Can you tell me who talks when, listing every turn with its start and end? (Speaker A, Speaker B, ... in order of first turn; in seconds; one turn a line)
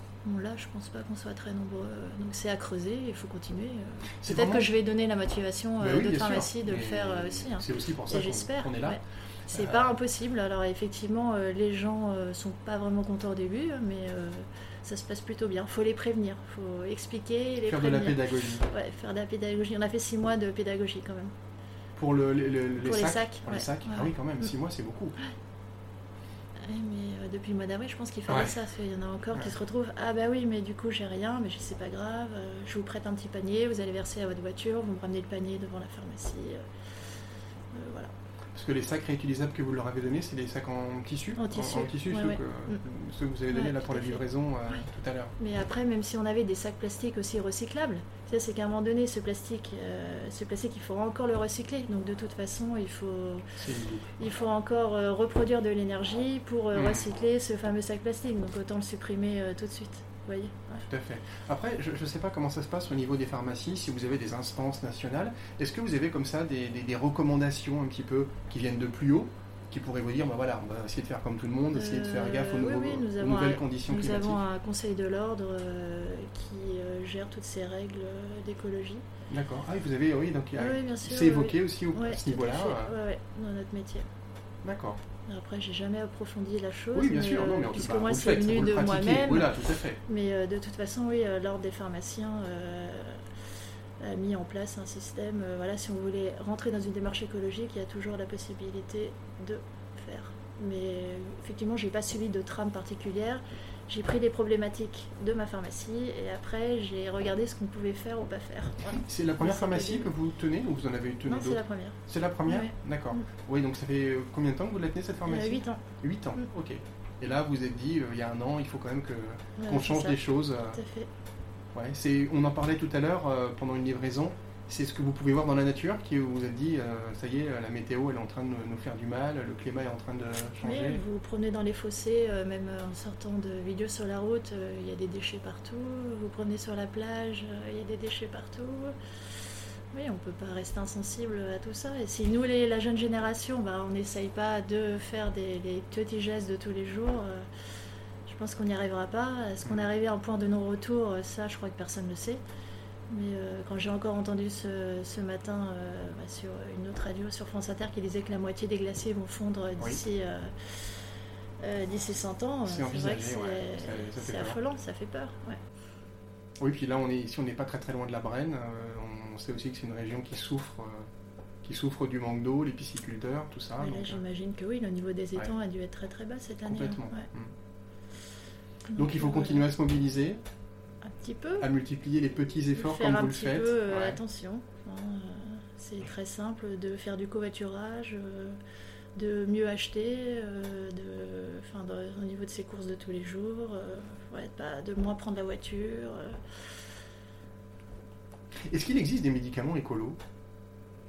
Speaker A: 0.2-21.3
Speaker B: 4.2-4.7
Speaker B: 5.8-10.0
Speaker B: 17.6-18.6
Speaker B: 21.9-25.2
Speaker A: 22.8-24.1
Speaker A: 26.6-36.6
Speaker B: 28.3-28.5
Speaker A: 37.7-38.1
Speaker B: 38.5-45.3
Speaker A: 41.4-42.8
Speaker A: 43.5-44.9
Speaker A: 45.4-53.5
Speaker B: 53.6-54.2
Speaker A: 54.2-60.8
Speaker B: 56.7-57.1
Speaker B: 60.8-74.4
Speaker A: 71.7-79.1
Speaker B: 79.3-82.9
Speaker A: 80.5-84.1
Speaker B: 84.6-85.0
Speaker A: 85.2-89.5
Speaker B: 86.9-90.0
Speaker A: 90.0-93.2
Speaker A: 94.0-110.1
Speaker B: 108.8-120.8
Speaker A: 111.2-113.3
Speaker A: 115.2-115.8
Speaker A: 119.6-121.1
Speaker B: 121.7-131.0
Speaker A: 130.6-138.9
Speaker A: 139.9-147.5
Speaker A: 148.2-152.4
Speaker A: 153.1-161.0
Speaker A: 161.6-165.6
Speaker B: 162.7-164.6
Speaker B: 166.6-171.1
Speaker B: 171.6-174.2
Speaker A: 173.8-177.3
Speaker B: 176.6-177.5
Speaker A: 178.9-179.7
Speaker B: 178.9-180.4
Speaker A: 181.0-181.7
Speaker B: 181.6-184.2
Speaker A: 182.7-188.6
Speaker A: 189.2-196.4
Speaker B: 198.7-200.2